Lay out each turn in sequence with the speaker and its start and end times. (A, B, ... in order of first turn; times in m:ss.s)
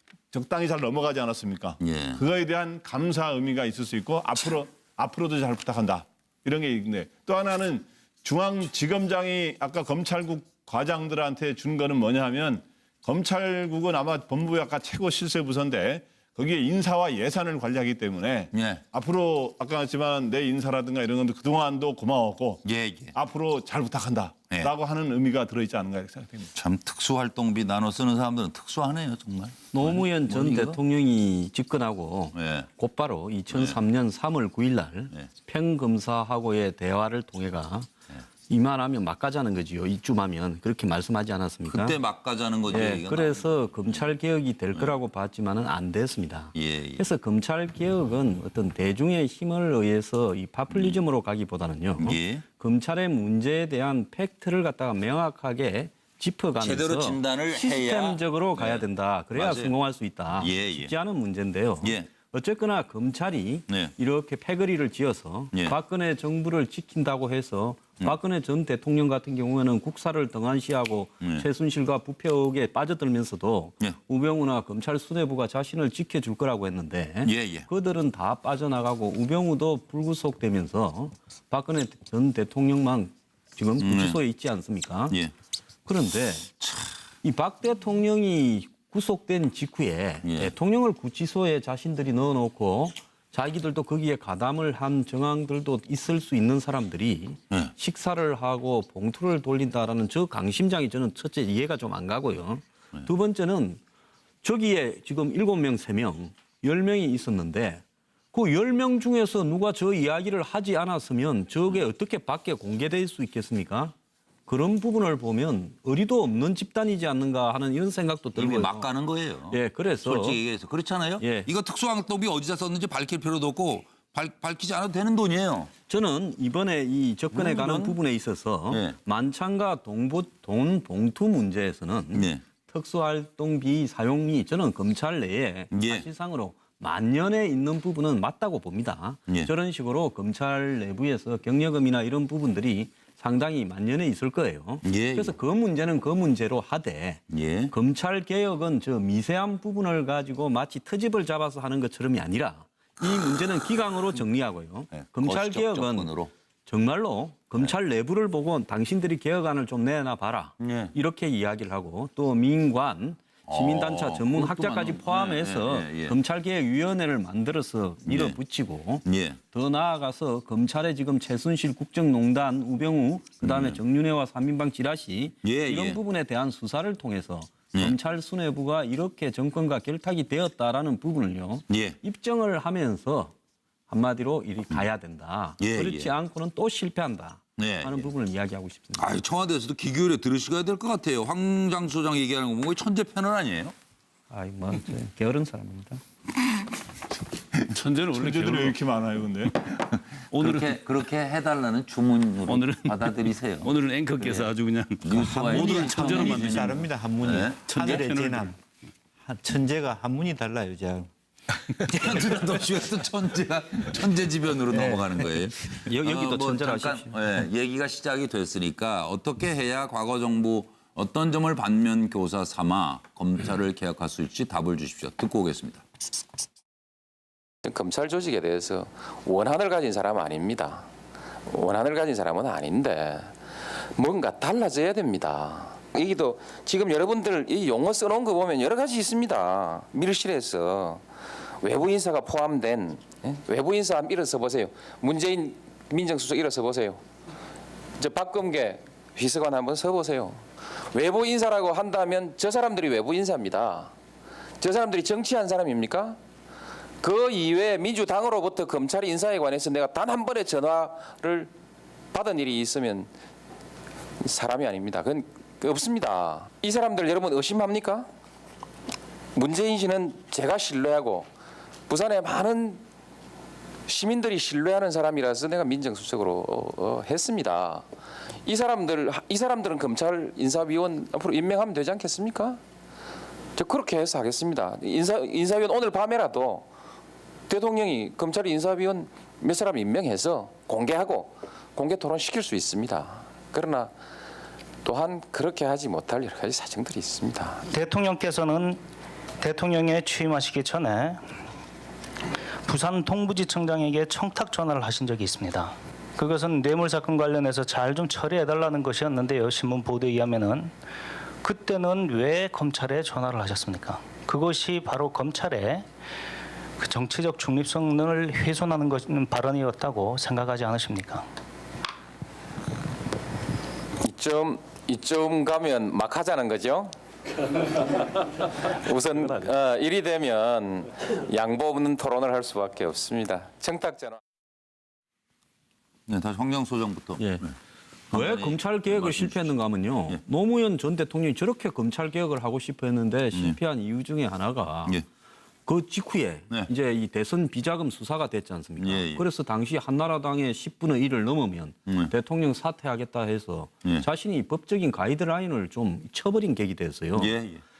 0:00.3-0:22.6 A
0:01.8-0:02.2 B
0:18.5-0:18.8 B
0:22.6-0:23.1 B
0:23.1-0:26.5 A
0:26.5-0:30.8 B
0:29.7-0:37.9 C
0:32.3-0:32.7 B
0:33.5-0:33.8 B
0:38.5-0:42.0 C
0:41.7-0:44.0 B
0:42.7-1:25.2 C
0:46.6-0:47.0 B
0:52.0-0:52.4 B
0:56.6-0:59.7 B
1:00.4-1:00.9 B
1:01.8-1:02.1 B
1:17.2-1:17.7 B
1:23.8-1:24.2 B
1:25.9-1:26.5 C
1:26.6-1:26.9 B
1:27.2-1:43.8 C
1:30.2-1:30.5 B
1:44.4-1:53.9 C
1:54.5-1:58.9 C
1:58.4-2:05.7 B
1:59.5-2:00.4 C
2:01.2-2:01.5 C
2:05.9-2:36.1 C
2:07.3-2:08.0 B
2:08.7-2:09.0 B
2:12.1-2:12.4 B
2:15.7-2:16.0 B
2:24.8-2:25.3 B
2:27.3-2:27.7 B
2:34.9-2:36.3 B
2:36.7-3:03.3 C
2:40.6-2:40.9 B
2:43.5-2:46.2 B
2:48.1-2:48.4 B
2:49.0-2:49.4 B
2:53.4-2:53.8 B
2:55.4-2:56.0 B
3:01.7-3:02.0 B
3:03.9-3:09.1 C
3:05.6-3:06.1 B
3:07.6-3:08.1 B
3:09.0-3:13.7 B
3:14.3-3:16.0 C
3:17.7-3:18.8 D
3:18.1-3:19.7 A
3:20.3-3:20.8 D
3:20.3-3:24.5 B
3:22.5-3:26.8 D
3:25.0-3:28.0 B
3:25.3-3:28.6 E
3:27.6-3:28.6 D
3:29.2-3:31.1 E
3:31.7-3:32.8 E
3:31.8-3:45.8 B
3:34.7-3:35.0 C
3:35.7-3:37.2 C
3:47.6-3:50.9 F
3:51.5-3:53.4 F
3:54.0-4:01.1 F
4:01.6-4:07.0 F
4:08.0-4:13.9 F
4:14.6-4:16.2 F
4:17.0-4:21.5 F
4:22.1-4:23.1 F
4:24.2-4:28.1 F
4:29.4-4:31.3 F
4:31.9-4:32.8 F
4:33.9-4:37.9 F
4:38.4-4:42.6 F
4:43.6-4:46.7 F
4:47.5-4:53.9 F
4:54.8-4:57.6 F
4:57.7-4:58.8 G
4:59.4-5:01.2 G
5:02.6-5:10.7 G
5:11.4-5:15.9 G
5:16.8-5:21.3 G
5:24.0-5:26.9 F
5:28.7-5:34.2 F
5:36.1-5:37.5 B
5:37.2-5:37.4 C
5:38.1-5:39.5 B
5:38.1-5:45.0 C
5:45.7-5:57.3 C
5:48.8-5:49.2 B
5:51.9-5:52.1 B
5:57.2-5:57.6 B